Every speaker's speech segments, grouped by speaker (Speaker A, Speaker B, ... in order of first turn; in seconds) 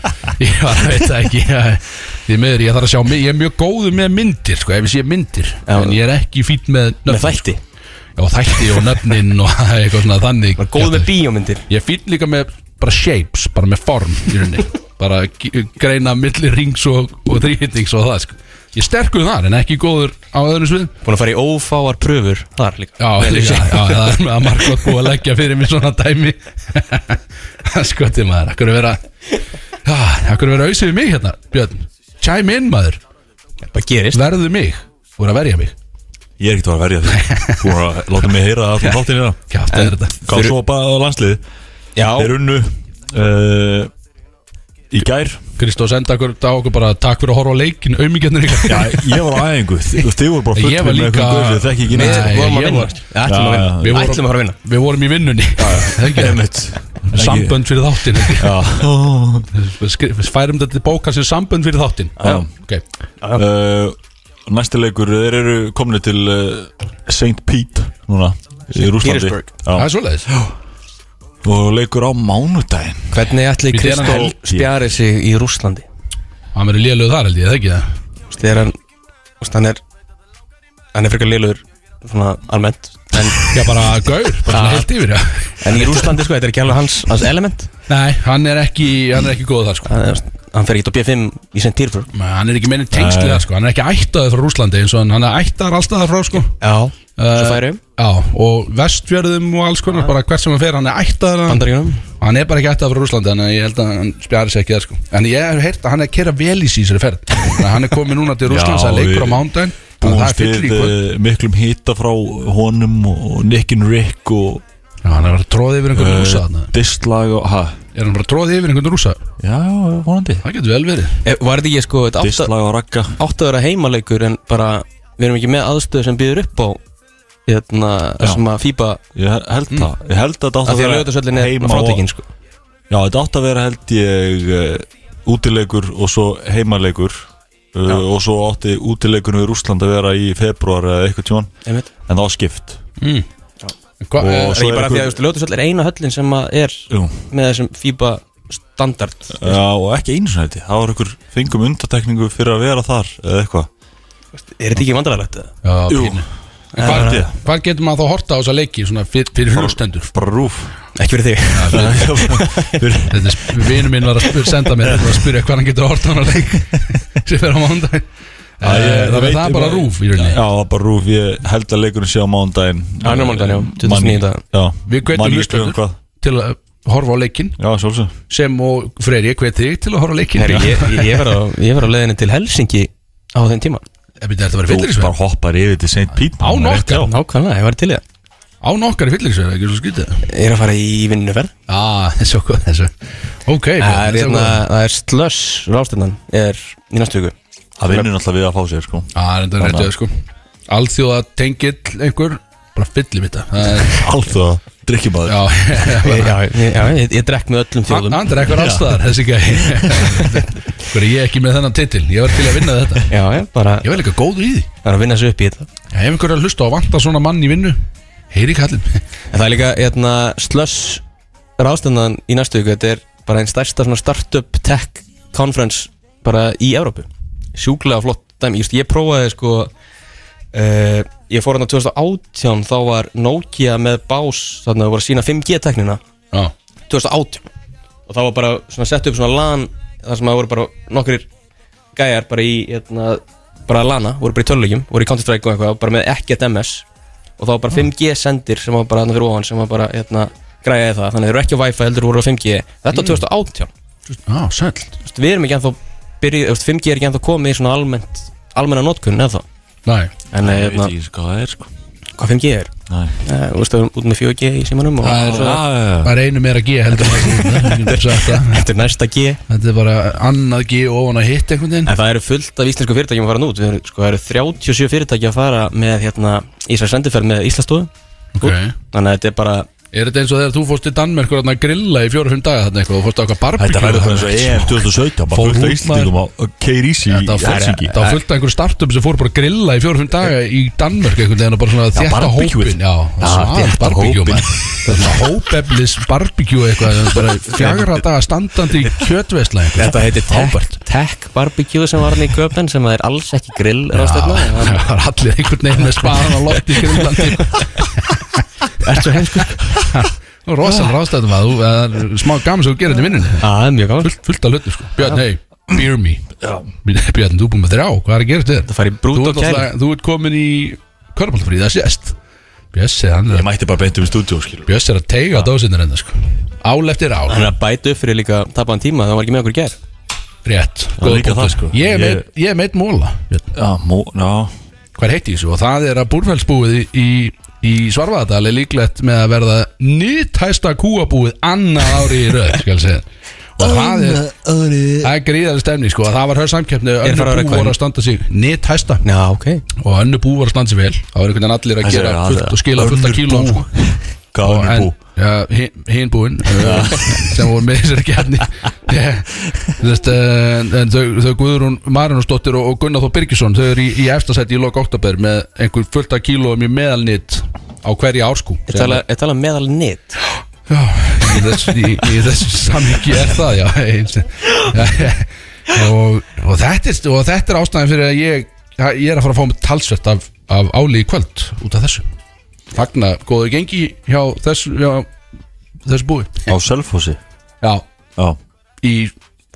Speaker A: 0.4-7.5, 8.2-11.1, 11.7-20.9, 23.0-29.0, 29.9-33.0, 34.1-35.7, 37.2-37.6, 39.5-40.1, 45.6-49.2, 50.5-53.0, 53.8-56.4, 57.1-58.7, 59.5-62.8, 69.7-70.3, 73.7-74.3, 76.5-77.9, 83.5-86.1, 87.9-89.9, 92.1-96.5, 97.2-101.6, 102.2-111.0, 115.0-116.7, 117.9-119.2, 120.4-121.2, 143.0-143.2, 144.0-144.6, 155.6-160.1, 161.5-162.1, 163.1-168.1, 168.6-170.4, 174.9-177.6, 178.3-181.3, 184.2-185.1, 186.3-187.1, 188.6-190.2, 191.7-192.9, 193.4-194.6, 199.1-200.1, 200.7-204.0, 205.2-206.4, 207.9-213.1, 213.8-214.7, 215.9-217.8, 218.3-219.0, 252.9-253.2, 254.1-254.9, 259.9-260.1, 265.0-268.6, 269.5-271.9, 278.4-278.7, 279.9-286.1, 287.1-300.8, 303.9-308.4, 309.9-313.5, 314.0-316.3, 316.8-322.1, 322.7-323.4, 324.7-327.5, 330.4-333.4, 334.9-343.1, 343.6-344.2, 345.0-349.0, 349.8-353.7, 354.4-369.0, 370.7-382.0, 382.7-385.1, 385.9-386.3, 388.8-389.1
Speaker B: 5.7-6.0, 7.1-7.6, 10.6-11.6, 21.0-24.6, 33.7-34.2, 39.7-40.5, 42.0-42.3, 51.9-54.6, 55.6-55.9, 62.2-62.5, 68.8-69.5, 73.1-75.8, 78.3-78.7, 79.4-79.8, 80.9-83.5, 84.5-84.9, 85.6-87.7, 89.9-92.1, 96.6-97.8, 101.5-102.0, 121.2-122.5, 123.1-126.8, 127.5-129.0, 130.6-132.2, 144.3-149.6, 154.3-155.5, 156.8-157.3, 160.9-162.9, 173.0-174.4, 180.3-183.8, 187.0-188.0, 190.3-191.5, 193.8-197.3, 206.0-208.3, 213.1-213.9, 214.8-215.7, 219.3-221.0, 221.6-229.7, 230.5-236.0, 236.9-237.4, 238.1-241.3, 241.9-246.8, 247.4-253.7, 255.0-259.4, 260.3-260.9, 262.2-262.7, 263.2-265.6, 267.2-269.4, 271.9-279.7, 297.6-297.9, 299.8-304.8, 305.8-307.6, 308.8-309.9, 313.4-314.1, 318.7-319.7, 327.3-329.8, 347.0-347.8, 349.0-349.6, 368.7-370.2
Speaker C: 36.4-39.4, 40.2-41.4, 42.1-43.9, 44.9-45.4, 48.7-52.5, 53.2-54.2, 55.7-59.5, 62.2-62.5, 63.3-70.5, 71.4-73.3, 73.9-74.7, 92.9-93.5, 108.4-114.6, 115.9-117.8, 119.4-120.4, 122.2-123.2, 129.1-132.1, 132.9-141.5, 142.1-142.8, 144.2-145.2, 146.9-147.2, 149.3-153.7, 155.9-156.2, 156.8-157.3, 159.5-160.7, 161.7-163.2, 168.6-176.0, 177.6-178.1, 184.7-187.1, 197.8-199.9, 203.7-205.8, 208.5-209.0, 260.4-261.7, 262.9-263.2, 265.0-266.1, 283.6-288.2, 291.9-295.0, 316.4-316.7, 323.3-324.7, 331.0-332.2, 333.5-334.5, 343.6-345.1, 351.8-354.9, 356.6-357.4, 386.5-387.2